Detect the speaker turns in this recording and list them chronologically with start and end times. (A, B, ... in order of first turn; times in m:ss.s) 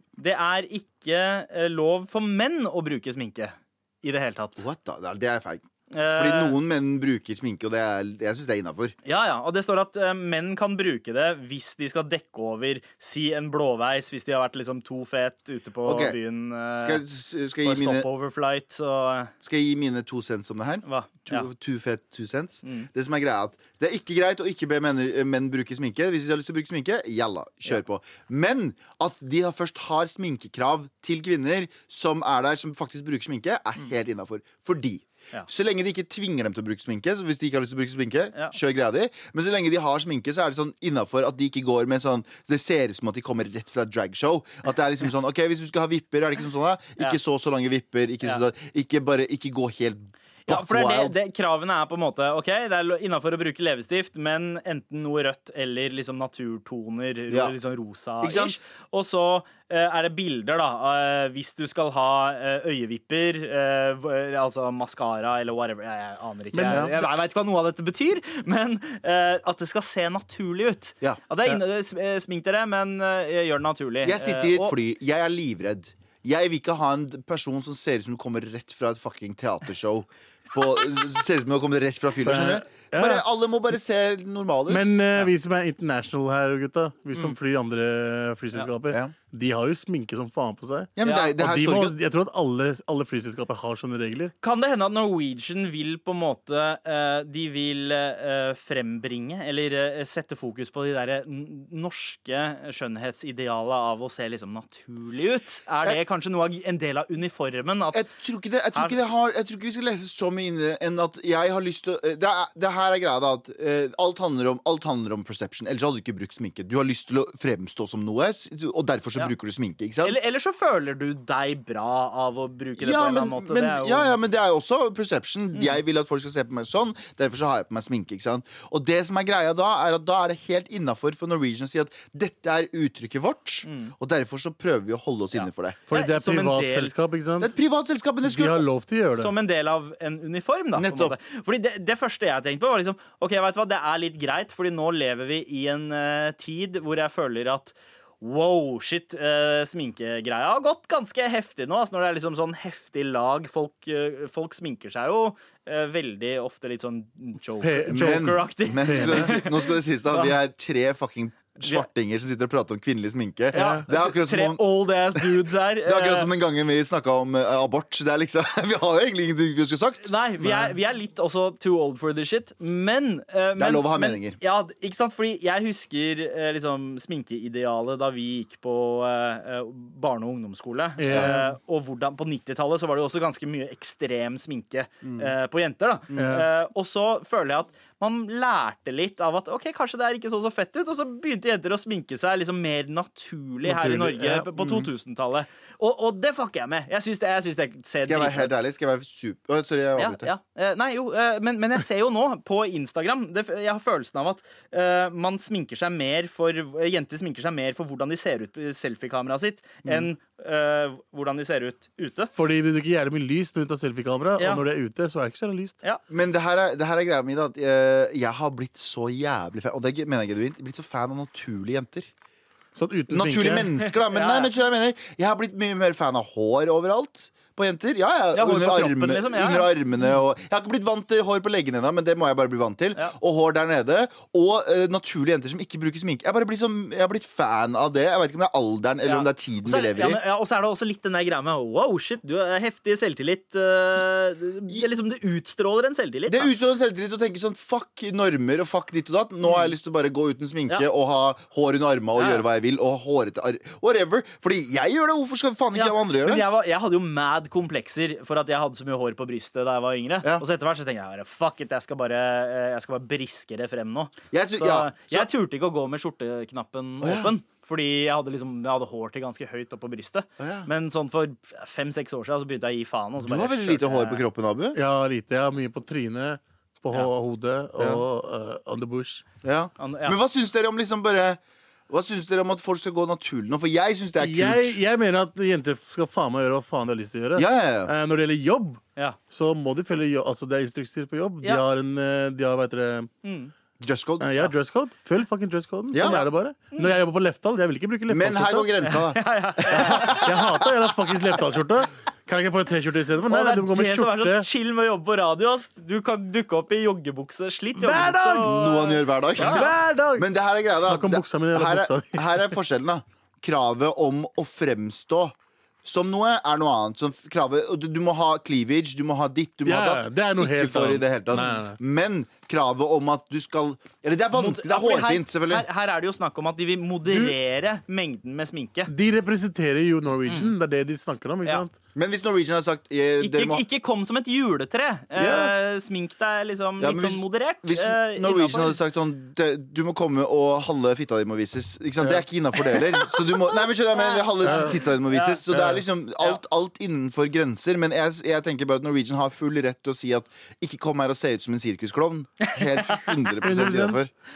0:00.2-0:04.6 A
0:04.6-0:08.9 B
0:05.9-0:06.6 A
0:09.0-0:17.0 A
0:15.8-0:16.2 B
0:16.8-0:18.1 B
0:17.6-0:19.3 A
0:19.4-0:51.2 B
0:20.8-0:21.5 A
0:50.5-1:14.8 A
0:58.2-0:58.6 B
1:06.5-1:07.1 C
1:14.0-1:24.8 B
1:22.2-1:23.2 C
1:24.7-1:34.3 C
1:31.0-1:32.0 B
1:31.0-1:31.3 A
1:34.4-1:48.0 A
1:47.9-2:00.2 B
2:00.0-2:04.2 A
2:02.8-2:15.8 B
2:05.5-2:05.8 A
2:13.6-2:13.9 A
2:15.3-2:16.9 A
2:15.9-2:17.5 C
2:17.4-2:18.6 B
2:18.2-2:19.3 C
2:19.1-2:40.3 A
2:20.7-2:21.2 B
2:37.6-2:39.4 C
2:37.9-2:44.6 B
2:41.6-2:41.9 A
2:43.5-2:43.8 C
2:43.5-2:46.3 A
2:45.1-2:50.1 B
2:50.0-3:18.5 A
2:50.4-2:50.7 C
2:53.6-2:54.4 B
3:01.0-3:01.5 C
3:01.1-3:01.4 B
3:05.0-3:05.3 B
3:06.1-3:06.5 C
3:13.6-3:14.5 C
3:14.6-3:14.9 B
3:18.0-3:20.3 B
3:20.0-3:32.3 A
3:32.3-3:35.8 C
3:34.4-3:34.6 A
3:36.1-3:42.1 B
3:42.7-3:43.7 C
3:43.1-4:00.2 B
3:43.8-3:44.5 A
3:48.3-3:50.1 A
3:59.0-4:06.5 A
4:06.3-4:16.4 B
4:09.4-4:09.7 A
4:12.2-4:12.4 A
4:15.7-4:34.2 A
4:24.3-4:25.3 B
4:27.0-4:27.3 B
4:30.4-4:30.7 B
4:33.2-4:34.8 B
4:34.7-4:39.2 C
4:37.8-4:38.0 B
4:39.4-4:44.8 B
4:39.8-4:40.2 A
4:44.2-4:53.1 C
4:47.4-4:47.9 B
4:53.2-4:53.5 A
4:53.8-4:54.3 B
4:54.2-4:58.8 C
4:55.9-4:56.2 B
4:56.0-4:56.9 A
4:58.1-5:00.4 B
4:58.8-5:00.4 A
4:59.7-5:04.5 C
5:03.3-5:09.7 A
5:07.8-5:08.6 C
5:08.4-5:25.7 B
5:09.4-5:12.6 C
5:19.6-5:21.8 C
5:24.3-5:28.9 A
5:27.1-5:27.4 C
5:28.9-5:31.7 C
5:30.2-5:30.5 A
5:31.9-5:33.6 B
5:33.2-5:38.8 A
5:35.2-5:35.5 C
5:36.8-5:54.1 B
5:42.7-5:43.1 A
5:43.9-5:45.4 A
5:44.4-5:44.8 C
5:45.5-5:45.8 C
5:52.4-5:53.3 A
5:53.4-5:54.0 C